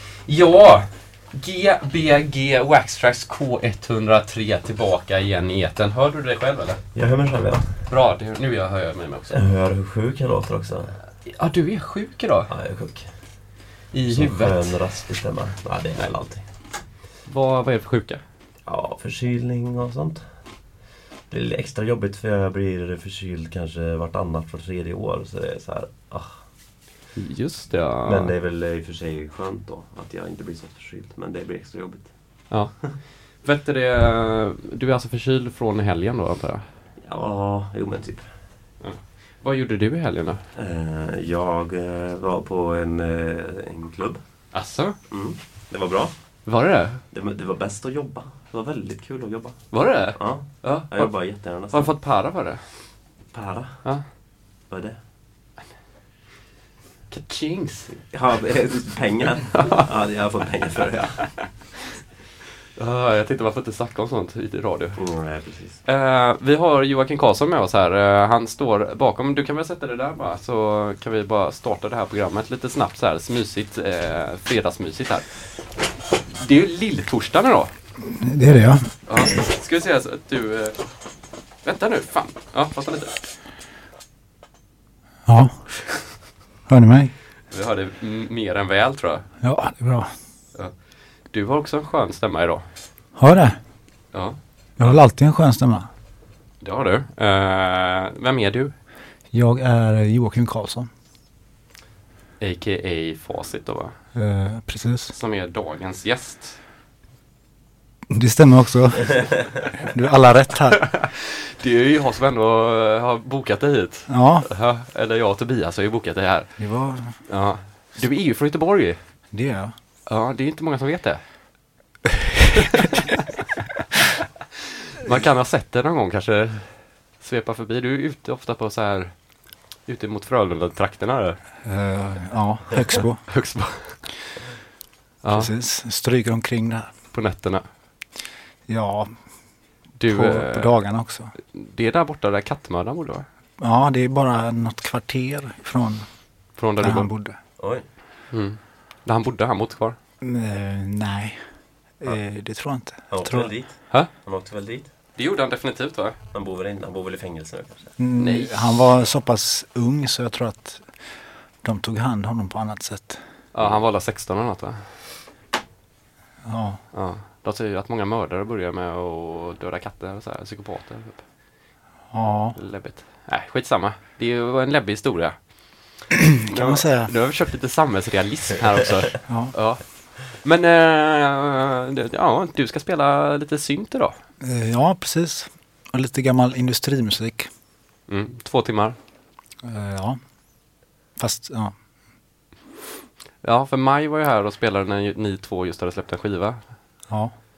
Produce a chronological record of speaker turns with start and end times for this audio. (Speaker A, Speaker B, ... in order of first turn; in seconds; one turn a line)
Speaker A: 0.2-6.8
Speaker B: 6.9-7.8
Speaker A: 7.9-9.4
Speaker B: 9.3-11.0
Speaker A: 11.2-12.5
Speaker B: 12.5-16.5
Speaker A: 13.9-14.8
Speaker A: 16.6-18.2
Speaker B: 18.6-26.5
Speaker A: 27.1-28.3
Speaker B: 28.0-32.6
Speaker A: 32.5-36.7
Speaker B: 37.0-38.3
Speaker A: 38.8-40.4
Speaker B: 40.5-44.5
Speaker A: 44.5-45.1
Speaker B: 45.1-46.5
Speaker A: 46.4-47.0
Speaker B: 47.1-51.9
Speaker A: 49.7-53.0
Speaker B: 53.3-54.1
Speaker A: 53.8-54.1
Speaker B: 54.6-55.0
Speaker A: 57.1-58.0
Speaker B: 58.0-61.4
Speaker A: 59.5-59.8
Speaker A: 61.0-61.7
Speaker A: 62.8-65.0
Speaker B: 65.0-65.8
Speaker A: 65.8-75.7
Speaker A: 76.4-77.7
Speaker C: 78.0-79.0
Speaker A: 79.0-81.0
Speaker A: 81.6-83.1
Speaker C: 85.2-85.6
Speaker C: 86.7-87.1
Speaker A: 87.5-89.3
Speaker C: 89.4-90.1
Speaker A: 90.5-92.6
Speaker C: 93.1-93.6
Speaker A: 94.1-95.0
Speaker C: 94.8-95.9
Speaker A: 96.6-98.7
Speaker C: 99.3-100.9
Speaker A: 102.4-104.0
Speaker C: 104.1-105.1
Speaker A: 105.1-106.6
Speaker C: 108.1-111.0
Speaker A: 110.8-119.1
Speaker C: 114.1-114.5
Speaker C: 116.6-117.3
Speaker C: 119.3-119.7
Speaker A: 120.1-121.6
Speaker A: 125.0-131.4
Speaker C: 131.6-133.9
Speaker A: 133.3-134.2
Speaker A: 135.2-135.5
Speaker C: 135.3-136.9
Speaker A: 137.1-137.7
Speaker C: 138.7-141.3
Speaker A: 139.9-143.3
Speaker C: 143.6-147.4
Speaker A: 146.5-147.6
Speaker B: 147.6-147.8
Speaker A: 148.3-150.0
Speaker C: 150.2-153.6
Speaker B: 153.1-155.0
Speaker A: 153.9-154.2
Speaker A: 155.1-156.2
Speaker B: 156.3-157.9
Speaker C: 158.0-163.3
Speaker A: 158.2-158.9
Speaker A: 163.5-164.9
Speaker C: 166.4-166.8
Speaker A: 166.9-171.3
Speaker C: 172.1-172.6
Speaker A: 172.6-184.2
Speaker C: 176.5-177.1
Speaker C: 179.2-179.5
Speaker C: 184.4-187.5
Speaker A: 188.1-188.9
Speaker C: 189.6-190.4
Speaker C: 191.1-191.8
Speaker A: 193.4-197.1
Speaker C: 197.1-197.3